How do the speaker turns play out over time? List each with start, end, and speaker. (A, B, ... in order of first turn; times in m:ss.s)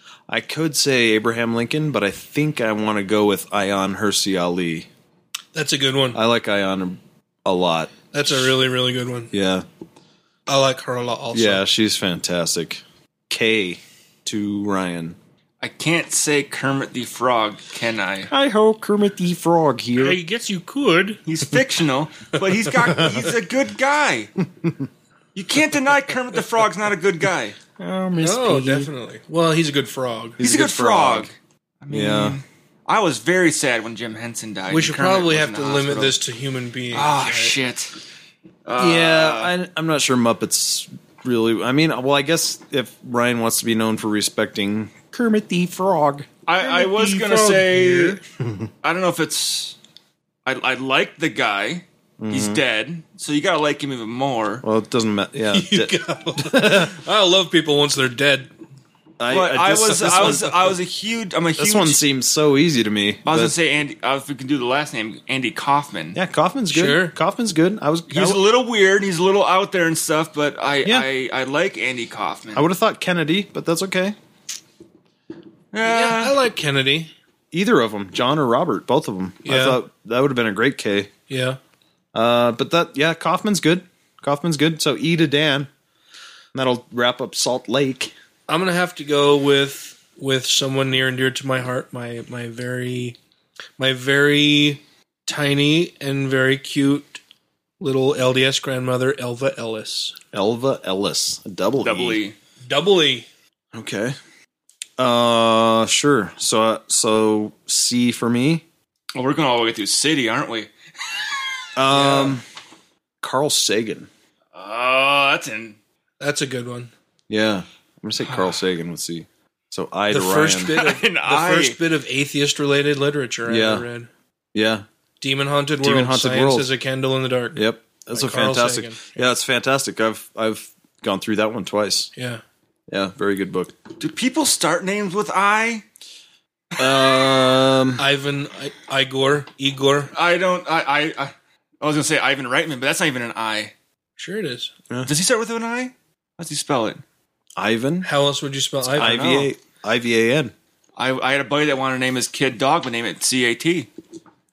0:00.3-0:04.9 A
0:05.5-0:06.2 B
0:06.1-0:08.5 A
0:08.1-0:09.3 B
0:09.3-0:09.6 A
0:10.5-0:11.6 B
0:11.3-0:15.2 A
0:15.6-0:18.3 C
0:18.3-0:20.2 A
0:20.0-0:21.2 B
0:21.2-0:24.3 C
0:25.3-0:27.6 C
0:27.8-0:28.9 A
0:28.2-0:30.4 B
0:30.4-0:31.3 A
0:30.4-0:36.2 C
0:31.9-0:32.4 A
0:34.7-0:37.5 B
0:36.9-0:37.9 C
0:38.6-0:39.5 C
0:38.8-0:46.3 A
0:46.4-0:48.2 C
0:46.6-0:48.2 B
0:48.8-0:49.8 C
0:50.4-0:54.6 C
0:52.2-0:52.6 A
0:54.6-0:56.9 A
0:55.5-0:58.5 B
0:59.2-1:00.7 A
0:59.3-1:02.0 C
1:01.6-1:03.5 A
1:03.2-1:06.2 C
1:06.1-1:08.4 A
1:06.7-1:07.1 B
1:08.1-1:12.7 C
1:12.5-1:14.2 A
1:15.7-1:16.4 C
1:15.8-1:17.1 B
1:17.5-1:21.1 A
1:19.4-1:19.8 B
1:21.3-1:21.6 B
1:22.1-1:25.7 A
1:26.5-1:28.1 A
1:28.5-1:33.2 B
1:33.8-1:37.2 B
1:37.8-1:40.1 B
1:40.3-1:42.2 A
1:41.8-1:42.3 C
1:42.6-1:43.3 B
1:43.7-1:44.2 A
1:45.0-1:48.6 A
1:49.1-1:51.3 C
1:51.8-1:52.4 A
1:51.9-1:52.4 B
1:53.2-1:54.1 A
1:54.5-1:55.8 C
1:56.2-1:56.9 B
1:57.3-2:00.7 A
2:00.1-2:04.1 B
2:00.7-2:01.8 C
2:03.4-2:03.9 A
2:04.5-2:04.8 A
2:05.2-2:09.2 B
2:05.8-2:06.7 A
2:07.5-2:12.1 A
2:12.2-2:12.4 B
2:12.9-2:13.7 A
2:14.0-2:15.8 C
2:16.8-2:18.0 A
2:18.0-2:20.1 B
2:20.1-2:23.7 C
2:24.2-2:24.7 B
2:25.0-2:27.0 C
2:27.6-2:28.1 A
2:28.0-2:29.2 B
2:28.9-2:29.5 C
2:28.9-2:30.5 A
2:31.0-2:33.9 C